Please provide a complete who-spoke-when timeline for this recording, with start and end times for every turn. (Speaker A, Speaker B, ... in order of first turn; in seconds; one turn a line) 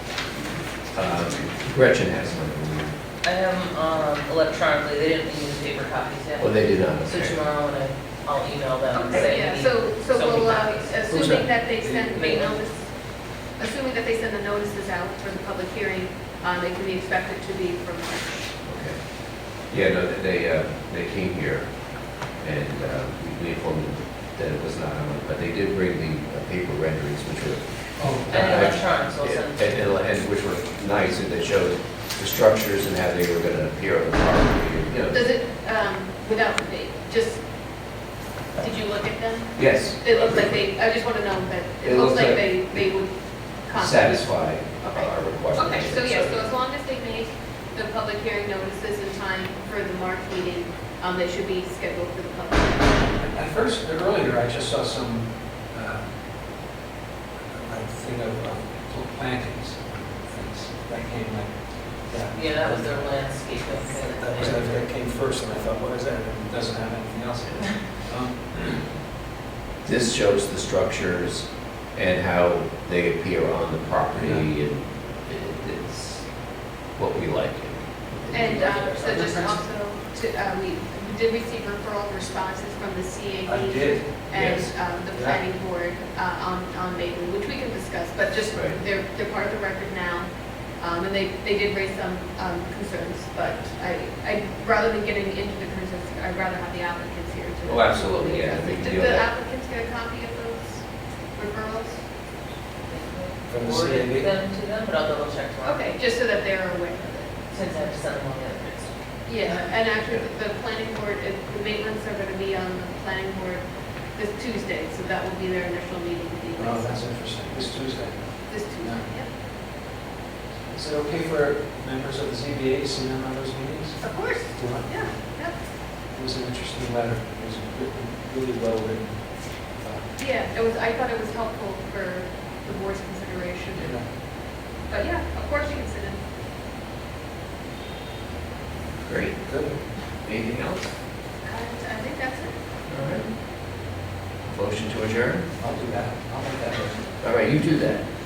Speaker A: 0.9-2.9
Speaker B: 3.2-12.6
Speaker A: 6.4-7.4
Speaker C: 8.9-18.4
Speaker D: 11.8-12.3
Speaker A: 18.6-35.2
Speaker D: 28.0-28.7
Speaker B: 28.3-29.8
Speaker C: 35.1-37.4
Speaker C: 38.6-44.3
Speaker A: 39.5-40.6
Speaker A: 41.8-42.9
Speaker A: 43.6-46.4
Speaker C: 44.8-53.1
Speaker D: 53.2-56.1
Speaker D: 57.4-68.5
Speaker B: 62.3-64.8
Speaker A: 68.5-68.9
Speaker A: 69.8-76.4
Speaker D: 74.1-74.5
Speaker A: 76.9-78.7
Speaker C: 78.3-102.0
Speaker B: 78.5-79.2
Speaker D: 79.1-79.6
Speaker D: 83.4-85.4
Speaker A: 84.3-84.8
Speaker A: 88.5-88.8
Speaker A: 97.7-99.3
Speaker B: 102.9-105.9
Speaker D: 103.5-104.3
Speaker C: 105.6-107.5
Speaker B: 107.5-109.6
Speaker C: 109.2-117.0
Speaker D: 116.5-119.1
Speaker C: 118.5-119.3
Speaker D: 120.7-125.3
Speaker C: 124.0-125.6
Speaker D: 126.1-130.1
Speaker C: 130.2-134.0
Speaker D: 133.8-134.1
Speaker C: 134.8-136.2
Speaker A: 139.0-139.6
Speaker D: 139.5-139.8
Speaker A: 140.2-140.9
Speaker C: 141.4-142.5
Speaker A: 142.9-143.3
Speaker A: 144.4-145.4
Speaker D: 145.6-147.1
Speaker A: 147.2-148.0